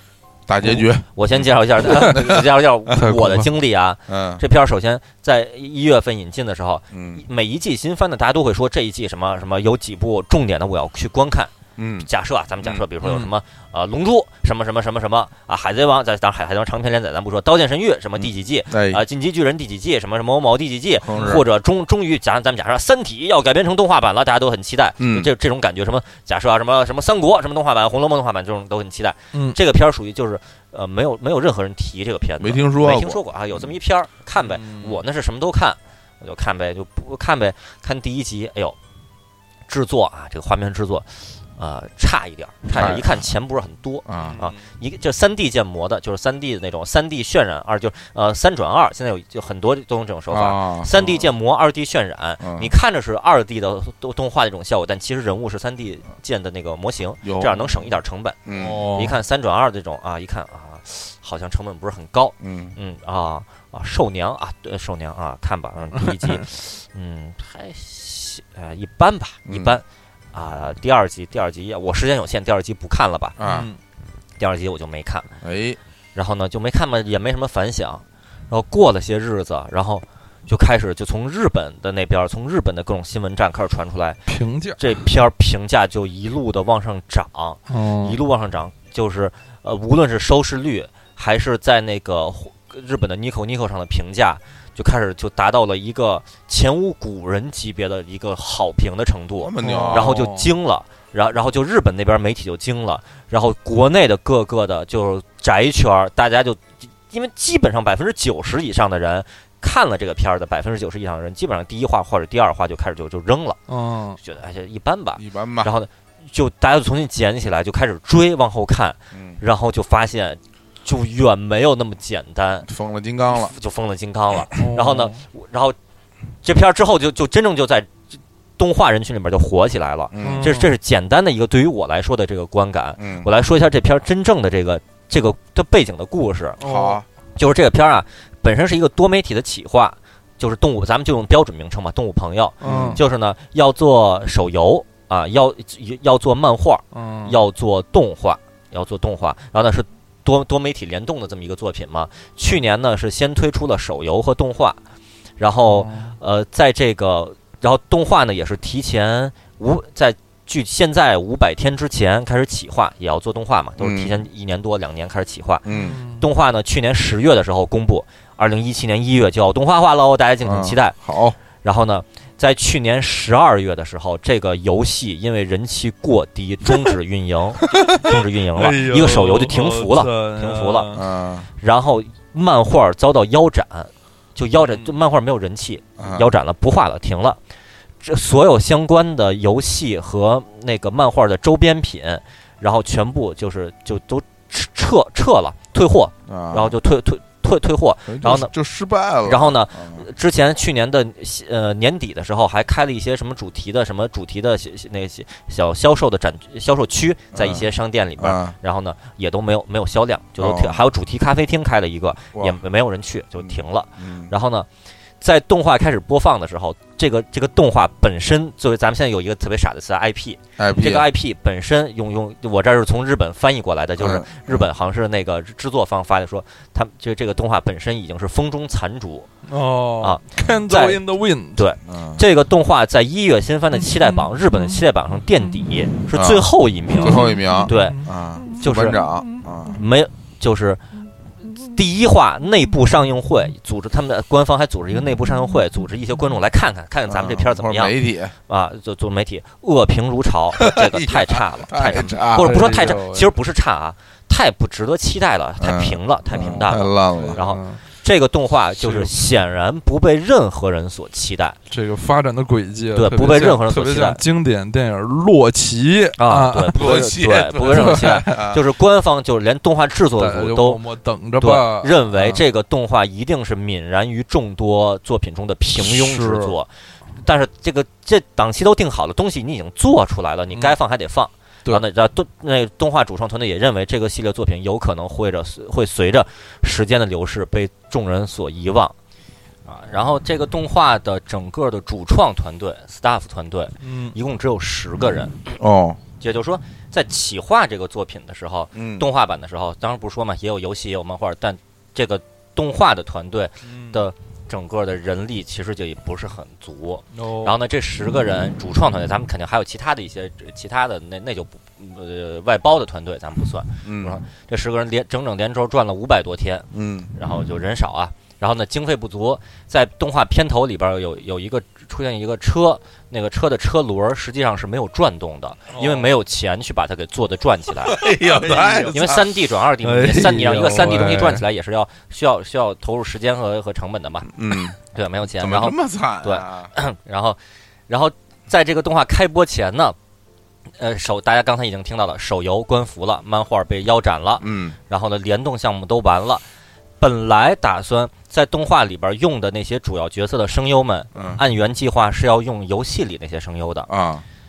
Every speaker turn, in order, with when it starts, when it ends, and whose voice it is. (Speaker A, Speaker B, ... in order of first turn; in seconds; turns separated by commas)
Speaker A: 0.5-2.4, Speaker B: 1.1-11.5, Speaker C: 2.9-3.5, Speaker A: 4.1-4.4, Speaker A: 6.9-7.2, Speaker A: 11.8-12.1, Speaker B: 12.0-38.8, Speaker A: 12.6-12.9, Speaker C: 13.0-13.3, Speaker A: 18.2-19.0, Speaker A: 21.0-21.4, Speaker A: 25.0-25.3, Speaker A: 32.4-33.2, Speaker C: 34.4-35.0, Speaker B: 39.7-73.4, Speaker A: 42.7-43.3, Speaker A: 44.1-44.4, Speaker C: 44.1-44.6, Speaker A: 50.3-51.2, Speaker A: 52.4-52.7, Speaker A: 57.2-57.9, Speaker A: 58.5-58.8, Speaker C: 58.6-59.2, Speaker A: 62.4-62.8, Speaker A: 69.5-69.8, Speaker A: 73.4-73.7, Speaker C: 73.5-73.8, Speaker B: 74.4-75.3, Speaker A: 75.4-75.8, Speaker B: 76.2-84.2, Speaker C: 84.3-84.8, Speaker B: 84.8-113.6, Speaker C: 87.7-88.2, Speaker A: 99.4-100.2, Speaker C: 99.6-100.5, Speaker C: 113.7-114.2, Speaker B: 114.2-122.7, Speaker A: 115.2-115.7, Speaker A: 119.1-119.4, Speaker A: 122.7-123.5, Speaker B: 123.3-125.8, Speaker C: 124.6-125.2, Speaker B: 126.4-127.9, Speaker B: 128.6-136.6, Speaker A: 130.1-130.5, Speaker C: 130.2-130.7, Speaker A: 133.0-133.3, Speaker C: 136.6-137.0, Speaker A: 136.6-137.1, Speaker B: 137.4-154.8, Speaker C: 142.6-143.0, Speaker A: 142.6-143.0, Speaker C: 146.9-147.4, Speaker B: 155.4-165.7, Speaker C: 155.6-156.2, Speaker A: 163.8-164.2, Speaker A: 165.7-166.0, Speaker C: 165.7-166.2, Speaker B: 166.2-170.9, Speaker A: 170.4-171.4, Speaker B: 171.6-180.9, Speaker C: 178.6-181.1, Speaker A: 180.9-181.5, Speaker B: 181.6-187.4, Speaker C: 184.6-184.9, Speaker A: 186.0-186.3, Speaker B: 188.0-198.5, Speaker A: 196.3-196.8, Speaker A: 198.1-200.0, Speaker B: 199.2-214.7, Speaker A: 207.3-207.7, Speaker A: 208.2-208.6, Speaker A: 210.4-210.8, Speaker A: 213.4-214.3, Speaker B: 215.2-229.3, Speaker A: 220.6-221.1, Speaker A: 224.0-224.7, Speaker C: 229.5-231.7, Speaker B: 230.0-231.0, Speaker B: 231.6-238.0, Speaker A: 231.8-232.2, Speaker C: 233.7-234.8, Speaker A: 236.1-239.8, Speaker C: 236.9-239.5, Speaker B: 238.6-239.0, Speaker B: 239.7-240.8, Speaker B: 241.6-247.9, Speaker A: 247.1-248.3, Speaker B: 248.5-261.6, Speaker A: 250.6-252.7, Speaker C: 252.4-253.3, Speaker A: 255.6-257.4, Speaker C: 256.3-257.8, Speaker C: 258.8-259.1, Speaker C: 261.7-268.4, Speaker B: 262.9-264.2, Speaker B: 266.2-270.8, Speaker A: 266.7-268.6, Speaker C: 270.2-272.4, Speaker B: 271.4-288.9, Speaker C: 275.8-276.6, Speaker B: 289.7-295.4, Speaker C: 293.8-294.1, Speaker A: 295.6-296.0, Speaker B: 296.2-328.0, Speaker A: 298.8-299.1, Speaker C: 303.6-304.0, Speaker C: 307.1-307.6, Speaker A: 313.8-314.2, Speaker A: 316.7-317.1, Speaker C: 325.7-326.1, Speaker A: 327.9-329.3, Speaker C: 328.1-329.0, Speaker B: 328.9-334.3, Speaker C: 329.8-331.4, Speaker A: 334.3-334.8, Speaker B: 334.9-337.4, Speaker A: 335.4-336.7, Speaker B: 337.9-340.0, Speaker B: 340.8-346.4, Speaker A: 344.4-344.8, Speaker B: 347.0-353.9, Speaker A: 351.1-351.4, Speaker A: 353.9-354.2